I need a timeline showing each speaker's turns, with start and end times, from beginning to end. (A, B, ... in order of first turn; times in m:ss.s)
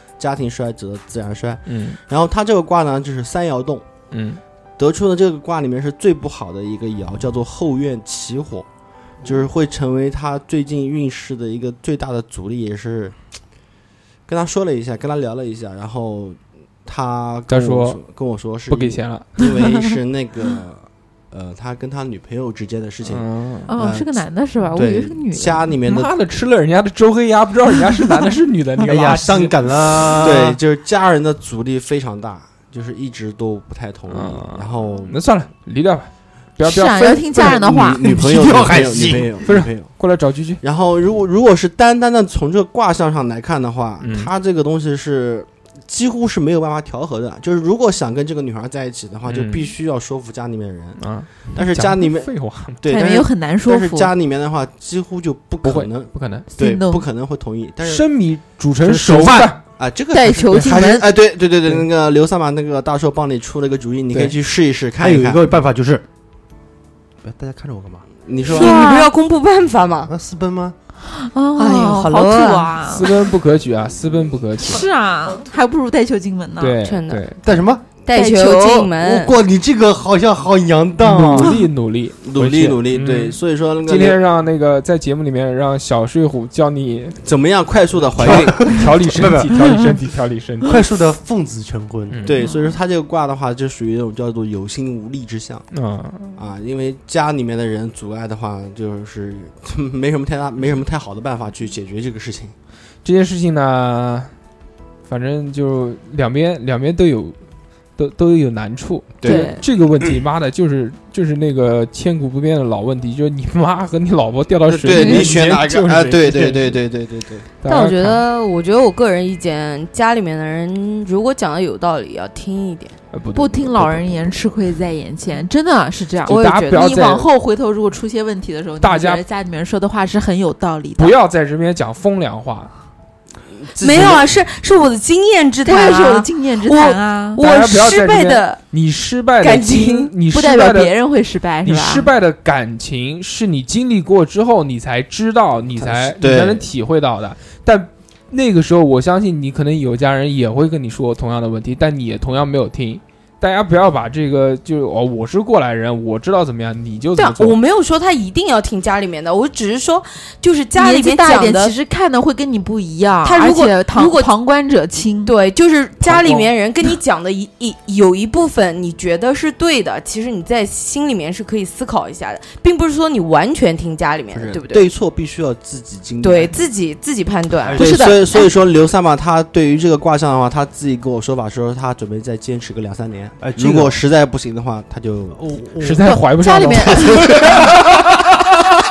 0:00.2-0:03.9 A
0:01.7-0:02.0 B
0:04.1-0:04.4 B
0:04.8-0:08.7 A
0:09.2-0:13.1 A
0:14.3-0:24.1 A
0:17.5-0:18.0 B
0:18.7-0:19.6 B
0:23.0-0:23.7 B
0:23.7-0:25.7 C
0:24.7-0:26.1 A
0:25.8-0:29.5 B
0:28.8-0:30.6 D
0:30.2-0:35.2 A
0:34.1-0:37.7 B
0:36.6-0:38.0 C
0:37.4-0:40.0 A
0:38.0-0:39.4 D
0:39.4-0:40.6 B
0:40.6-0:58.0 A
0:44.0-0:44.3 B
0:49.3-0:49.7 B
0:51.0-0:52.8 B
0:52.8-0:54.1 C
0:55.6-0:56.5 B
0:56.6-0:57.0 C
0:57.8-0:59.6 B
0:58.8-0:59.5 D
0:59.8-1:05.4 A
1:00.1-1:01.0 C
1:05.0-1:06.0 D
1:07.2-1:08.1 D
1:08.2-1:08.7 A
1:08.5-1:10.1 E
1:08.5-1:09.1 C
1:10.0-1:10.7 D
1:11.1-1:13.1 C
1:11.6-1:12.8 E
1:12.9-1:14.8 B
1:14.6-1:16.8 C
1:16.6-1:17.4 B
1:16.8-1:17.2 E
1:17.4-1:17.8 D
1:18.0-1:19.3 E
1:18.1-1:18.9 C
1:19.0-1:21.5 D
1:21.0-1:27.2 B
1:22.2-1:24.2 A
1:27.2-1:28.7 A
1:28.0-1:30.8 B
1:28.2-1:29.9 D
1:30.6-1:32.3 D
1:32.1-1:32.4 B
1:32.2-1:35.7 A
1:35.7-1:36.4 B
1:36.4-1:42.5 A
1:43.0-1:44.3 B
1:45.0-1:47.4 B
1:48.0-1:56.8 B
1:49.2-1:49.5 A
1:49.2-1:49.5 E
1:49.3-1:49.6 C
1:54.7-1:57.5 A
1:54.9-1:55.3 E
1:57.6-1:58.2 B
1:57.6-2:03.0 E
2:03.1-2:04.3 B
2:03.4-2:11.1 C
2:06.2-2:07.0 E
2:06.3-2:07.3 B
2:08.8-2:09.2 B
2:11.0-2:12.7 B
2:13.7-2:18.6 E
2:13.8-2:14.2 A
2:15.6-2:17.4 C
2:17.4-2:20.9 B
2:19.4-2:20.1 E
2:20.3-2:22.1 C
2:21.6-2:37.6 B
2:26.0-2:26.7 A
2:37.2-2:41.7 E
2:40.7-2:45.3 C
2:43.2-2:44.3 E
2:45.2-2:54.9 E
2:46.0-2:46.4 B
2:54.3-2:56.6 A
2:56.2-2:58.4 E
2:57.6-2:58.1 D
2:57.8-3:05.4 A
2:57.8-2:58.3 C
3:03.4-3:04.0 D
3:05.3-3:06.2 D
3:05.8-3:07.9 B
3:06.1-3:07.3 E